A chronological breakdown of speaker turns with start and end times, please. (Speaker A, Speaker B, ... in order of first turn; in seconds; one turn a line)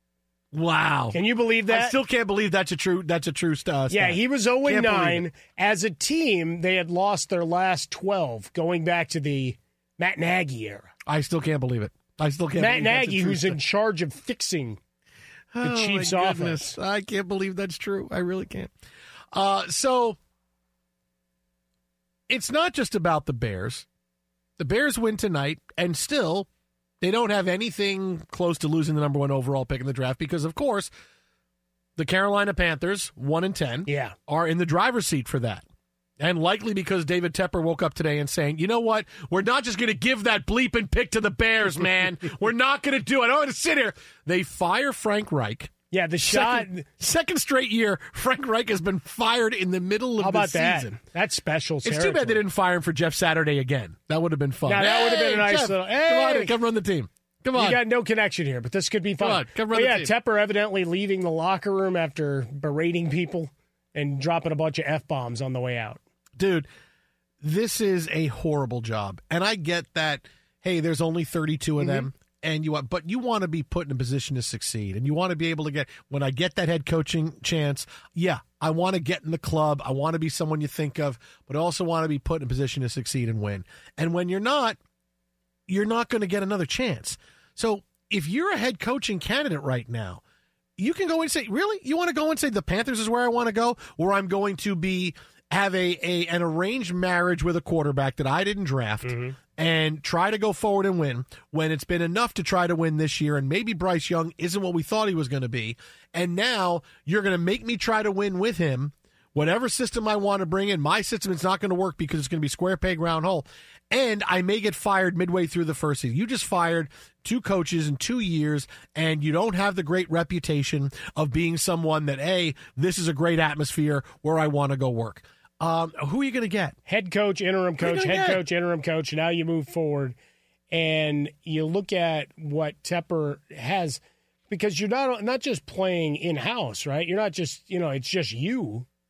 Speaker A: 0.5-1.2
Speaker B: 1.1-2.0
Speaker A: 1.7-5.2
Speaker B: 3.9-10.9
Speaker A: 11.1-13.6
Speaker B: 12.6-14.8
Speaker A: 15.5-18.7
Speaker B: 15.6-16.8
Speaker A: 19.3-20.2
Speaker A: 22.3-23.9
Speaker A: 24.6-26.5
Speaker A: 27.0-30.9
Speaker A: 32.0-35.6
Speaker B: 33.9-34.1
Speaker A: 36.2-45.7
Speaker B: 45.9-46.9
Speaker A: 46.3-51.0
Speaker B: 50.2-52.4
Speaker A: 51.9-57.8
Speaker B: 54.7-56.5
Speaker B: 57.5-66.0
Speaker A: 59.2-60.1
Speaker A: 66.4-66.7
Speaker A: 67.4-84.8
Speaker B: 71.8-72.1
Speaker A: 85.7-90.2
Speaker A: 90.8-126.8
Speaker B: 99.0-99.4
Speaker B: 126.9-130.2
Speaker A: 127.8-128.4
Speaker B: 130.7-138.9